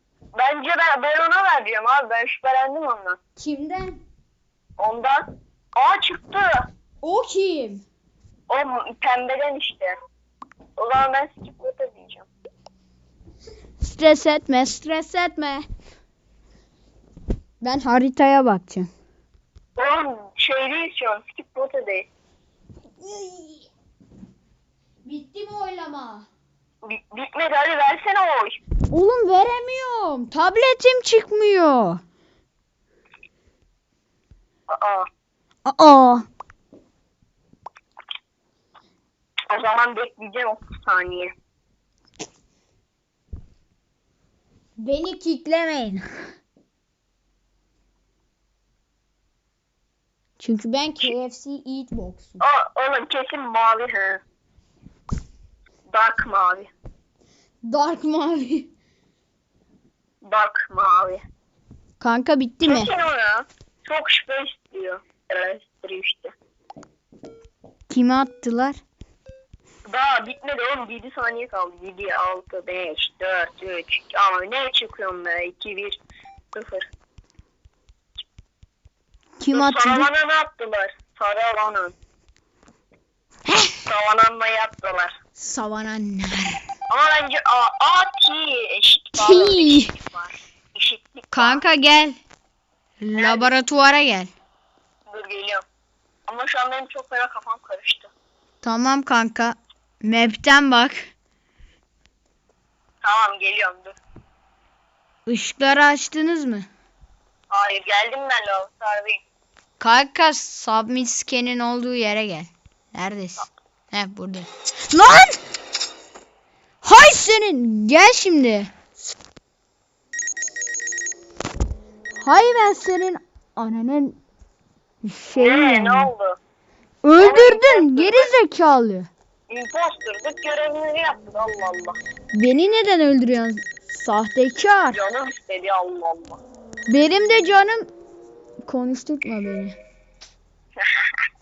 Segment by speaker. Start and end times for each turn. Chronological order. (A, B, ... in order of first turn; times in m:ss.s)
0:00.4-0:03.2 A
0:03.4-0:04.0 B
0:04.8-0:06.7 A
0:07.0-0:07.8 B
0:08.5-0:09.9 A
0:10.8-0:12.3 A
0:13.8-0:15.7 B
0:17.6-0:18.9 B
0:19.8-0:22.1 A
0:23.0-0:23.7 B
0:25.0-0:26.3 B
0:26.8-0:28.6 A
0:28.9-0:32.0 B
0:34.7-0:35.1 A
0:35.6-0:36.2 B
0:39.5-0:41.3 A
0:44.8-0:46.1 B
0:50.4-0:52.4 B
0:52.4-0:54.2 A
0:55.9-0:56.7 A
0:57.7-0:58.7 B
1:00.2-1:01.2 A
1:02.0-1:02.9 B
1:02.6-1:06.3 A
1:07.9-1:08.8 B
1:09.9-1:16.0 A
1:16.5-1:16.9 A
1:19.4-1:20.1 B
1:19.5-1:22.0 A
1:23.5-1:23.8 B
1:23.9-1:25.1 A
1:25.4-1:26.6 B
1:26.9-1:31.6 A
1:29.2-1:29.9 B
1:31.3-1:32.2 B
1:33.0-1:34.3 B
1:33.2-1:33.6 A
1:35.1-1:35.6 A
1:36.3-1:38.1 A
1:38.6-1:41.0 B
1:43.0-1:44.0 A
1:45.2-1:46.7 B
1:47.5-1:49.2 A
1:49.8-1:55.4 B
1:56.8-1:58.7 B
2:02.2-2:04.2 B
2:05.1-2:06.1 B
2:05.4-2:06.4 A
2:07.0-2:09.1 B
2:07.2-2:08.3 A
2:09.5-2:12.0 A
2:12.3-2:15.0 B
2:14.9-2:16.4 A
2:16.9-2:17.9 B
2:18.6-2:19.8 B
2:20.8-2:21.1 A